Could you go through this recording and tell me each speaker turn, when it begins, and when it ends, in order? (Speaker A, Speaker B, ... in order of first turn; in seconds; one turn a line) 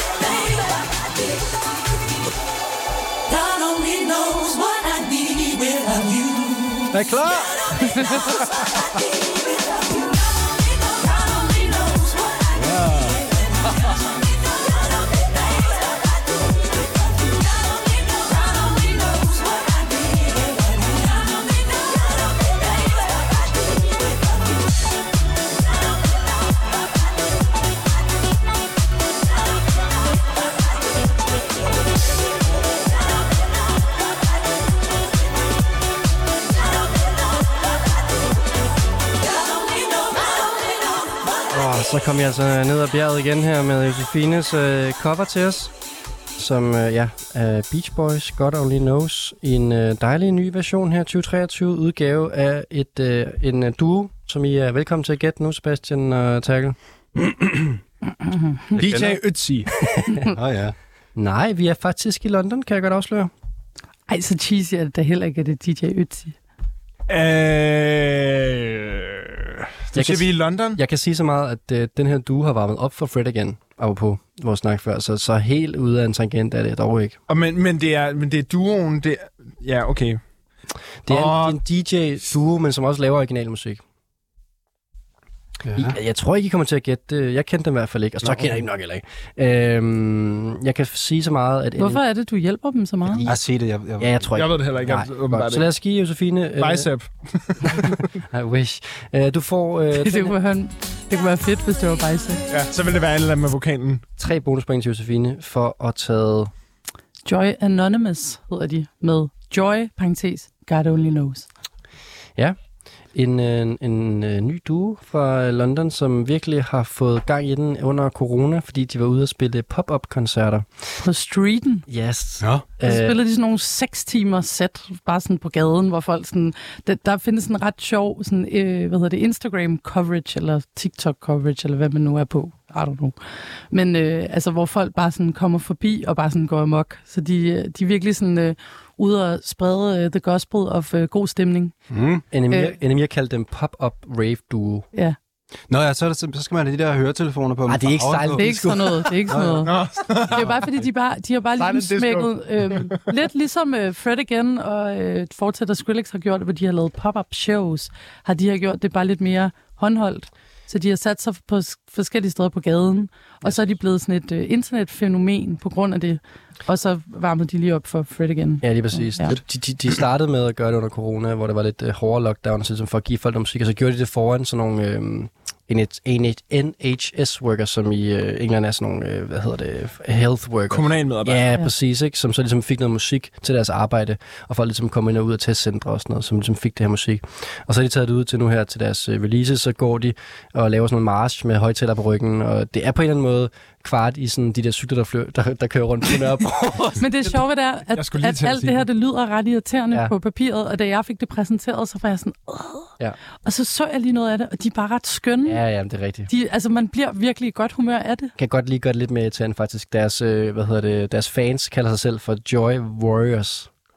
Speaker A: 3.3-6.9
Speaker B: 6.9-7.5
Speaker A: 10.8-12.6
Speaker B: 12.5-13.2
Speaker A: 18.1-21.8
Speaker C: 41.5-45.7
Speaker C: 46.4-56.8
Speaker D: 58.7-59.7
Speaker B: 58.8-59.2
Speaker B: 60.3-60.7
Speaker C: 61.1-63.3
Speaker E: 64.1-66.3
Speaker D: 67.1-70.8
Speaker C: 69.9-77.2
Speaker D: 77.3-80.2
Speaker C: 81.1-83.8
Speaker D: 81.1-81.6
Speaker B: 85.6-86.0
Speaker C: 85.8-92.0
Speaker E: 91.8-93.2
Speaker C: 93.1-96.9
Speaker B: 93.2-94.3
Speaker D: 94.3-95.7
Speaker D: 96.6-98.0
Speaker C: 98.3-100.3
Speaker E: 100.0-102.4
Speaker D: 102.5-104.0
Speaker C: 104.2-106.5
Speaker E: 107.2-111.5
Speaker C: 113.1-120.7
Speaker E: 121.0-121.8
Speaker C: 121.9-123.2
Speaker B: 122.4-122.7
Speaker E: 122.8-133.2
Speaker E: 133.7-141.7
Speaker B: 141.9-142.2
Speaker C: 142.3-144.9
Speaker E: 142.5-142.7
Speaker B: 145.7-148.7
Speaker C: 147.7-149.3
Speaker E: 148.3-149.7
Speaker B: 149.3-149.7
Speaker D: 149.6-150.6
Speaker E: 150.3-169.4
Speaker D: 151.6-153.1
Speaker C: 168.6-197.0
Speaker D: 180.7-181.5
Speaker E: 197.0-205.6
Speaker D: 197.9-198.8
Speaker C: 205.4-206.3
Speaker E: 206.3-208.3
Speaker C: 208.4-213.7